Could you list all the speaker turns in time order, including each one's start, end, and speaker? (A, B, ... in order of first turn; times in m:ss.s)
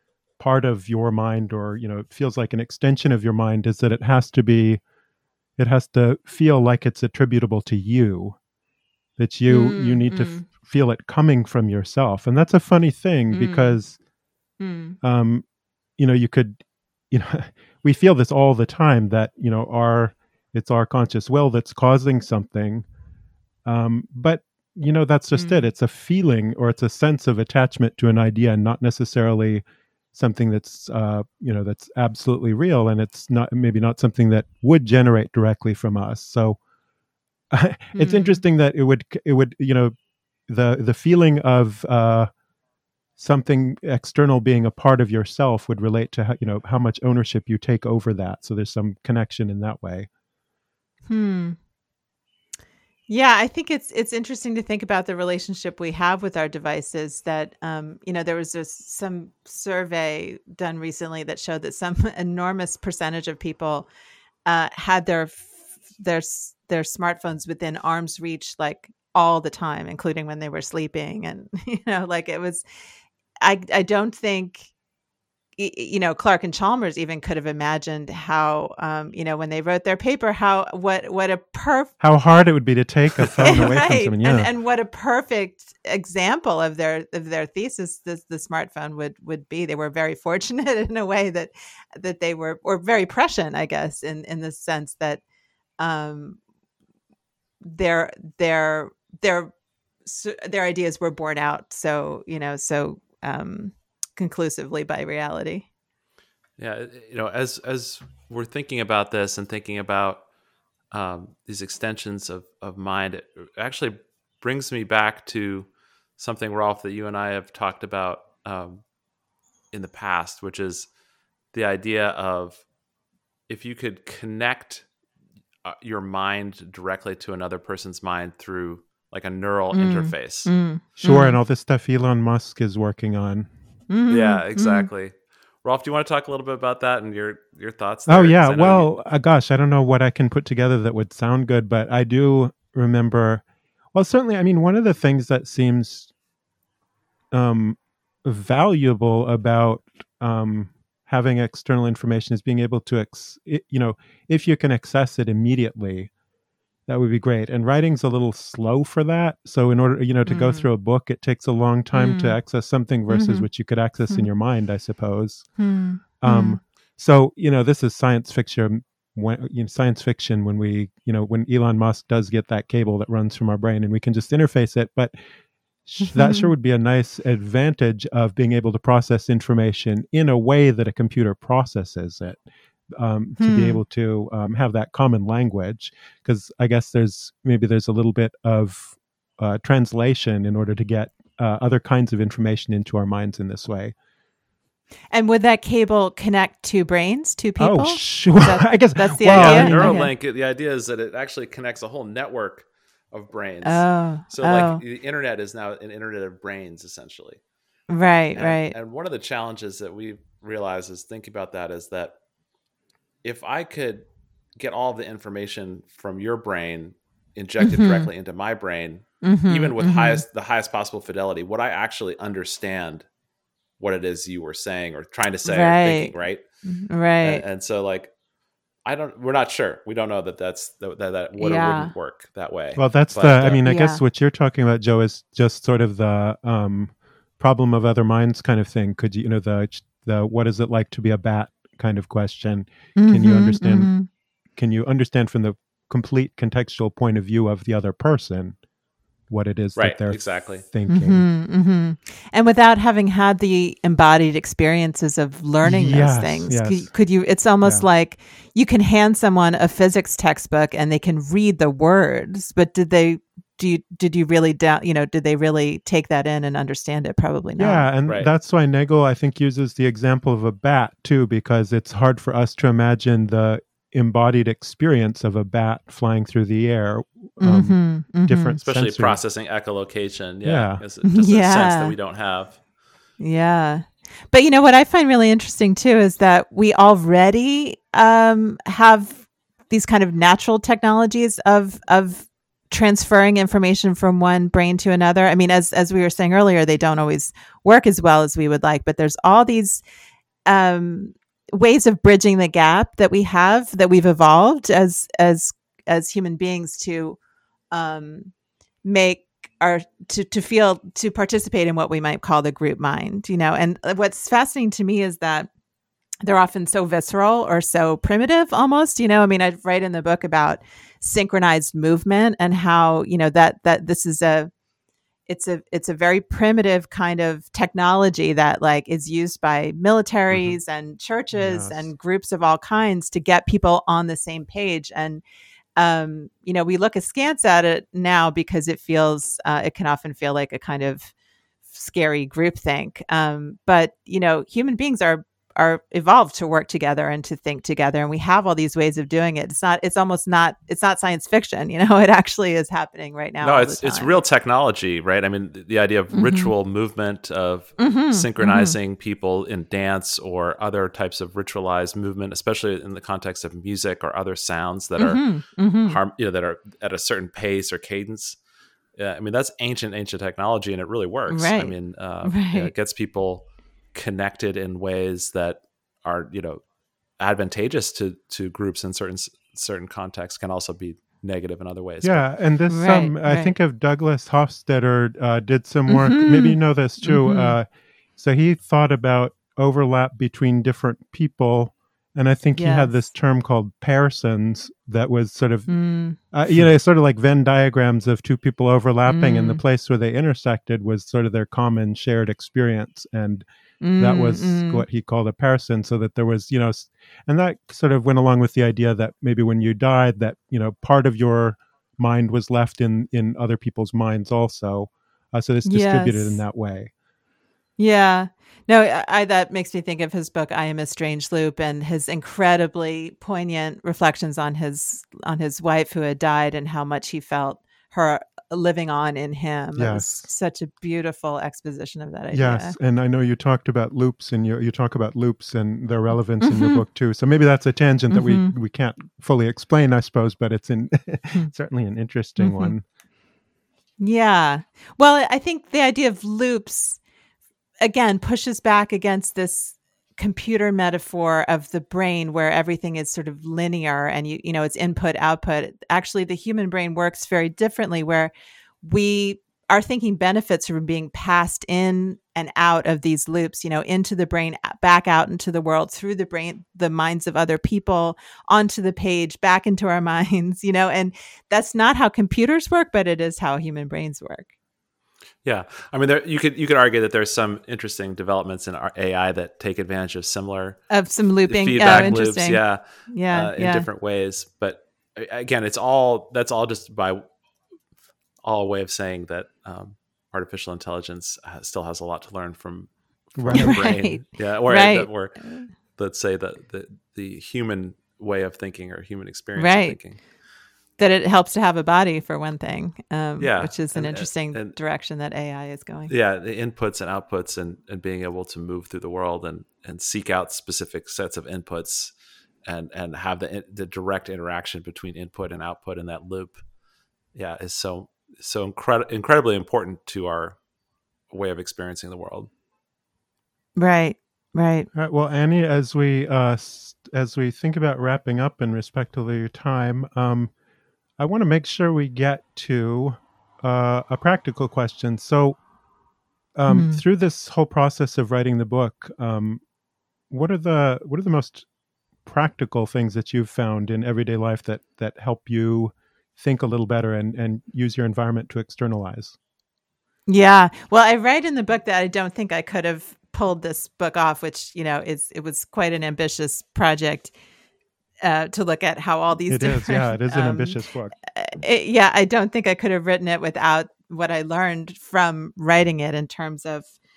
0:00.4-0:04.8 A
0:05.6-0:08.4 A
0:09.2-0:14.0 A
0:09.5-0:10.5 B
0:13.3-0:13.8 B
0:14.6-0:15.0 B
0:15.0-0:15.4 A
0:16.0-0:22.9 A
0:23.6-0:36.6 A
0:25.4-0:25.6 B
0:37.5-0:39.9 A
0:37.9-0:38.4 B
0:40.5-0:42.3 A
0:43.2-0:50.1 A
0:51.1-0:51.6 B
0:53.1-1:03.9 B
1:04.5-1:12.6 B
1:13.4-1:14.7 B
1:15.6-1:21.9 B
1:22.0-1:24.5 A
1:23.4-1:35.2 B
1:35.8-1:36.4 B
1:37.6-1:39.5 B
1:40.0-1:45.7 B
1:46.6-1:50.2 C
1:50.9-1:58.8 C
1:59.7-2:00.9 C
2:01.5-2:02.6 C
2:03.5-2:04.9 C
2:05.6-2:10.5 C
2:09.7-2:11.4 B
2:11.0-2:13.5 A
2:13.9-2:14.9 B
2:14.1-2:18.9 C
2:18.1-2:26.1 A
2:27.3-2:36.1 A
2:36.9-2:45.6 A
2:40.3-2:40.7 B
2:41.9-2:42.4 B
2:43.1-2:43.5 B
2:45.6-2:46.6 B
2:46.2-2:55.2 A
2:55.8-3:14.0 A
2:56.0-2:56.5 B
3:03.4-3:03.8 B
3:15.1-3:20.1 B
3:17.6-3:20.0 A
3:19.3-3:27.4 C
3:23.6-3:24.8 B
3:27.9-3:28.8 B
3:28.3-3:32.2 C
3:33.2-3:34.1 C
3:34.6-3:43.1 C
3:37.6-3:38.1 B
3:39.2-3:40.2 B
3:43.8-3:46.4 C
3:45.4-3:46.1 B
3:46.6-3:47.4 B
3:47.2-3:48.1 C
3:48.8-3:53.6 C
3:51.4-3:51.9 B
3:52.8-4:04.0 A
3:53.6-3:54.0 B
4:03.0-4:04.1 B
4:04.6-4:08.6 A
4:09.3-4:11.3 A
4:09.8-4:10.6 C
4:10.9-4:27.9 B
4:15.6-4:16.9 A
4:27.6-4:39.2 A
4:37.4-4:38.6 B
4:38.6-4:42.6 C
4:40.4-4:40.8 A
4:41.0-4:42.0 B
4:43.2-4:59.8 B
5:00.5-5:07.2 B
5:07.7-5:08.3 B
5:08.8-5:15.5 B
5:16.2-5:24.5 B
5:25.3-5:35.2 B
5:31.3-5:31.9 A
5:35.8-5:41.1 B
5:41.7-5:54.2 B
5:53.4-6:08.4 C
5:56.1-5:56.5 B
5:57.8-5:58.8 B
6:05.0-6:06.0 B
6:09.0-6:16.6 C
6:11.3-6:12.7 B
6:17.2-6:22.2 C
6:22.0-6:35.7 A
6:22.7-6:23.5 B
6:25.9-6:27.6 B
6:32.6-6:33.0 B
6:35.7-6:36.2 B
6:36.2-6:43.4 A
6:39.1-6:39.6 B
6:43.8-6:44.8 B
6:44.0-6:56.9 A
6:55.6-6:56.4 B
6:57.8-7:12.8 B
7:09.8-7:10.2 A
7:12.3-7:22.8 A
7:16.4-7:16.8 B
7:18.1-7:18.5 B
7:22.4-7:22.8 B
7:24.0-7:27.0 B
7:27.8-7:54.5 B
7:55.4-8:00.9 C
8:00.9-8:03.9 B
8:01.4-8:07.2 C
8:08.4-8:20.2 C
8:13.4-8:14.0 A
8:13.5-8:15.7 B
8:19.6-8:20.0 B
8:21.0-8:26.1 B
8:23.4-8:24.8 C
8:26.1-8:32.1 C
8:32.7-8:36.6 C
8:37.3-8:40.6 C
8:41.3-8:42.5 C
8:43.8-8:44.9 B
8:44.9-8:50.5 A
8:51.2-8:55.6 A
8:56.6-8:59.6 A
8:56.7-8:57.0 B
9:00.3-9:01.7 A
9:02.2-9:09.4 A
9:10.3-9:17.3 B
9:18.2-9:26.9 B
9:19.5-9:21.2 A